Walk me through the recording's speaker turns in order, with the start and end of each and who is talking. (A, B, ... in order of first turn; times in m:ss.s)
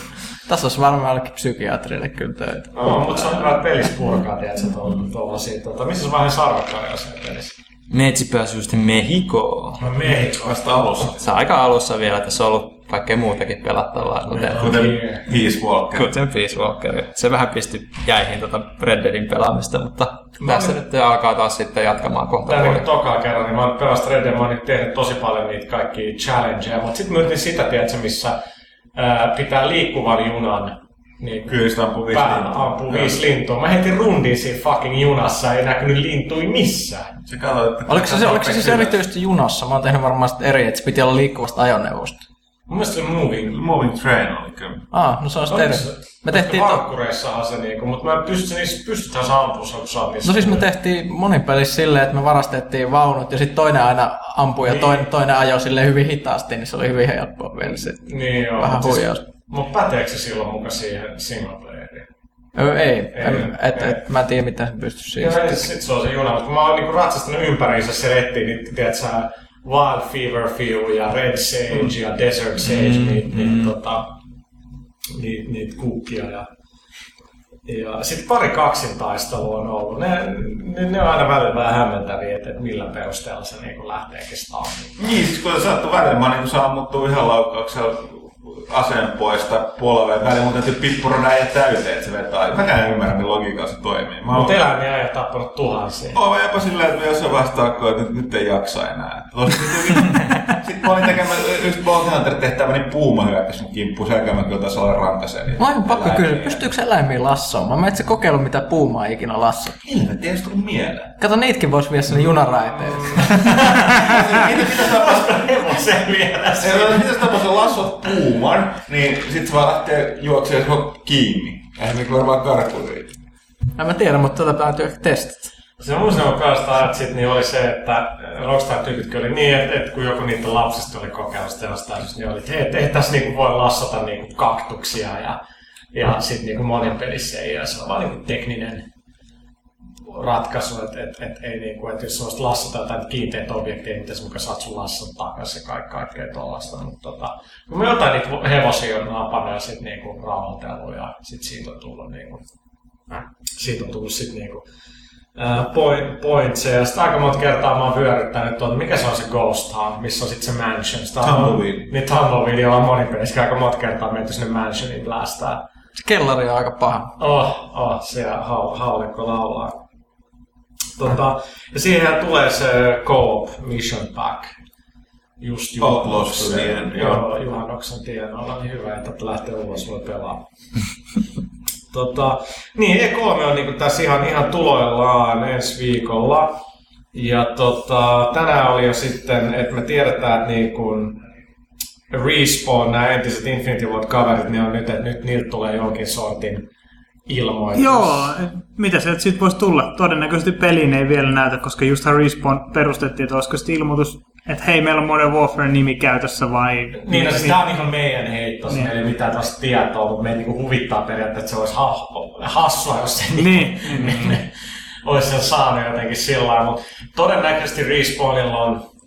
0:00.5-0:03.4 A
0:02.8-0:07.6 B
0:07.9-0:09.8 C
0:09.8-0:10.6 B
0:10.0-0:11.2 D
0:11.2-0:14.8 C
0:14.3-0:15.2 B
0:14.5-0:16.1 D
0:15.9-0:22.9 C
0:20.4-0:20.8 B
0:22.5-0:28.4 B
0:29.0-0:31.6 B
0:31.5-0:33.2 D
0:32.1-0:37.2 B
0:37.3-0:39.0 D
0:37.9-0:42.2 A
0:42.7-0:43.6 B
0:43.5-0:44.9 D
0:44.9-0:46.8 A
0:45.5-0:50.6 B
0:50.2-0:59.2 A
0:54.6-0:55.1 B
0:57.6-1:02.1 B
1:02.6-1:05.7 A
1:03.2-1:04.0 B
1:05.2-1:14.1 B
1:12.6-1:13.7 C
1:15.1-1:16.5 B
1:17.7-1:25.0 B
1:25.0-1:34.6 D
1:34.3-1:36.2 B
1:36.1-1:46.6 D
1:45.6-1:49.8 A
1:49.8-1:51.1 D
1:51.2-1:53.6 A
1:53.0-1:57.2 B
1:53.9-1:55.4 D
1:56.6-2:03.2 D
2:03.8-2:05.5 A
2:05.8-2:15.4 B
2:15.9-2:18.9 B
2:20.0-2:32.4 B
2:33.1-2:34.7 B
2:35.4-2:45.6 B
2:41.2-2:41.9 D
2:46.0-2:47.2 A
2:47.2-2:49.8 B
2:51.0-2:54.5 B
2:55.4-3:00.4 B
2:55.8-2:57.3 D
3:01.9-3:06.6 B
3:07.1-3:11.2 B
3:12.1-3:16.7 B
3:17.3-3:18.3 B
3:17.7-3:27.7 E
3:27.1-3:34.5 B
3:33.4-3:34.4 E
3:35.0-3:38.8 B